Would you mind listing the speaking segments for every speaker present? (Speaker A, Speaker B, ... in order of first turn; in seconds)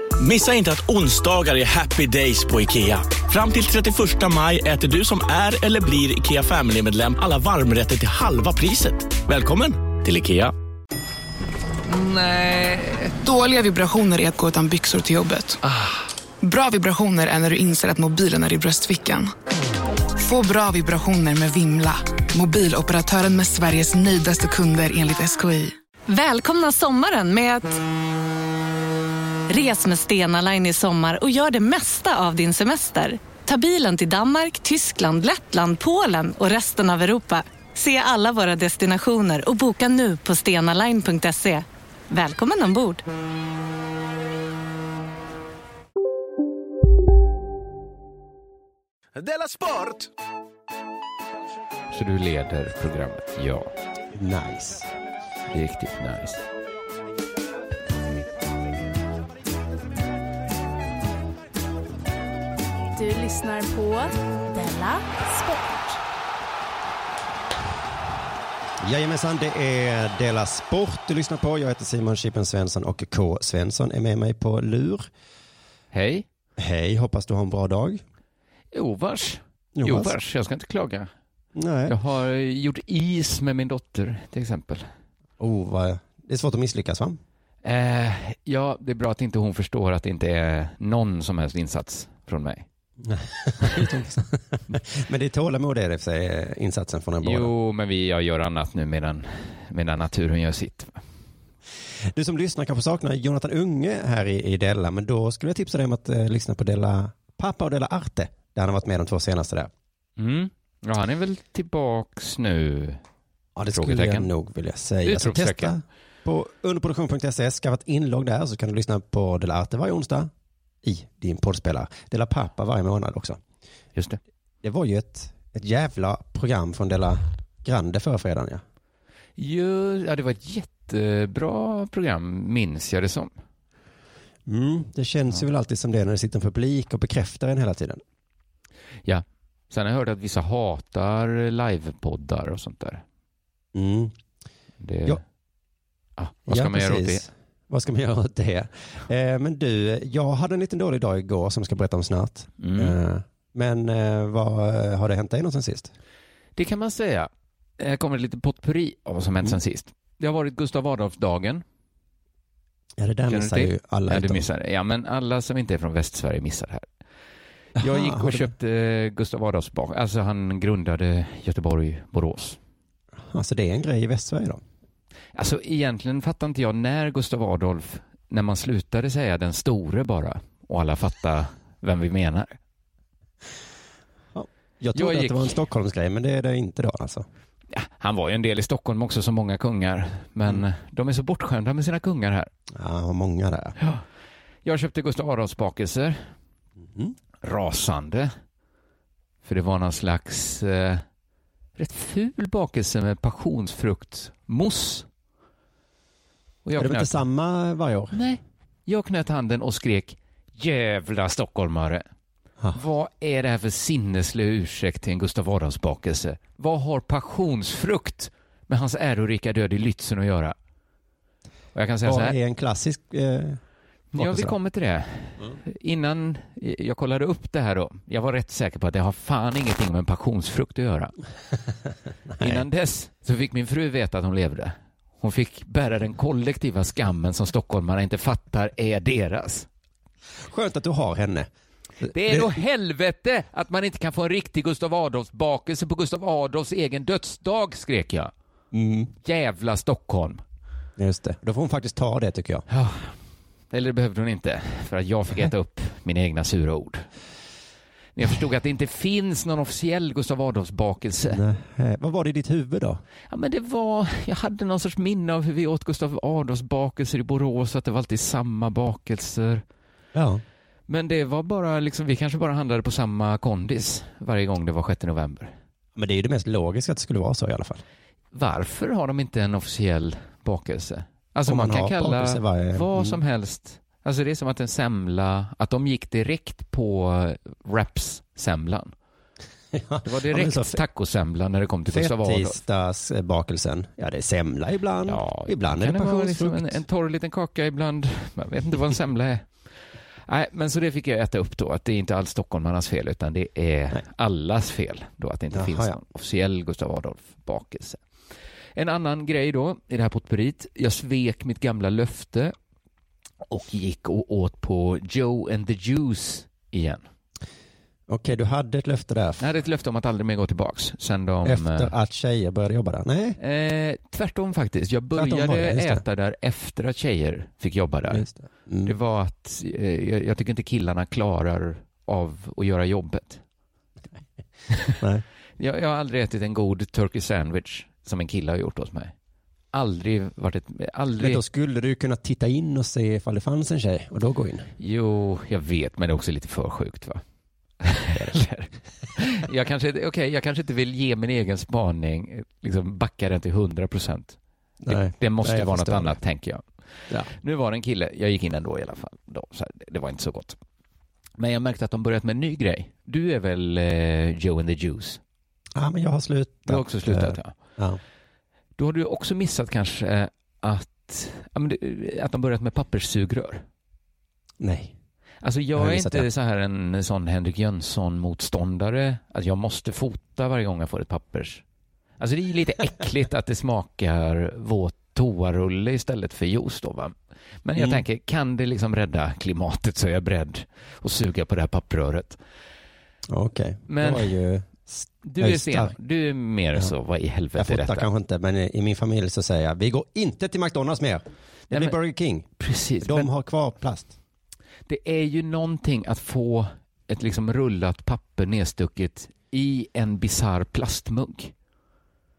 Speaker A: 0.2-10.5, 49.2-50.1
Speaker B: 11.9-13.0, 51.9-53.7, 55.5-56.4, 75.9-76.3, 78.7-81.1, 81.9-84.9, 87.6-92.7, 97.2-101.0, 110.2-113.0, 113.7-114.3, 115.0-115.8, 129.4-133.3, 139.1-143.0, 144.8-145.2, 146.2-147.2, 152.6-152.9, 156.6-161.6, 163.3-166.9, 167.8-172.6, 175.3-182.6, 184.9-185.6, 187.7-192.5, 193.8-194.0, 194.6-196.3, 197.4-198.3, 199.4-201.0, 201.8-205.1, 206.7-207.2, 208.1-212.0, 212.7-220.6, 221.8-222.4, 224.1-231.1, 232.4-239.7, 242.1-248.3, 249.2-250.4, 252.7-253.2, 253.7-257.1, 258.2-261.4, 263.3-269.6, 270.9-275.5, 278.3-288.9, 290.0-292.6, 295.1-299.5, 300.3-308.0, 308.8-312.5, 313.5-317.1, 319.4-321.9, 323.4-328.2, 328.9-333.4, 334.7-335.0, 335.6-339.1, 339.7-341.4, 344.8-347.2, 347.8-354.4, 354.9-356.6, 357.3-360.6, 361.4-365.2, 366.7-367.6, 368.8-373.6, 375.4-381.6, 382.2-392.4, 393.9-394.3, 395.2-398.1, 401.7-402.0, 402.6-403.3, 404.9-411.5
Speaker C: 13.2-15.6, 16.4-19.3, 20.2-25.7
Speaker D: 26.1-27.8, 29.5-43.0
Speaker E: 54.2-54.9, 68.8-75.1, 76.6-78.0, 79.8-80.1, 81.5-82.0, 85.4-87.2, 93.0-97.5, 102.1-109.7, 113.6-120.3, 120.8-123.4, 124.6-128.6, 134.5-138.0, 143.7-144.2, 146.5-155.9, 163.0-164.5, 167.8-168.5, 173.2-174.6, 184.3-187.3, 192.7-193.8, 196.8-197.2, 206.8-208.2, 222.1-223.6, 224.2-224.5, 232.3-232.6, 240.4-241.5, 242.0-242.6, 248.7-249.1, 251.0-252.7, 261.3-263.0, 270.1-270.4, 276.0-277.8, 281.5-283.2, 289.7-290.8, 291.9-296.8, 305.5-306.0, 318.1-319.4, 321.4-323.4, 325.1-326.0, 328.1-328.9, 335.0-335.2, 341.2-344.7, 354.8-356.2, 365.8-368.0, 374.6-374.9, 375.8-376.3, 387.8-388.0, 393.3-395.9, 397.6-402.5, 403.0-404.1
Speaker F: 63.0-66.0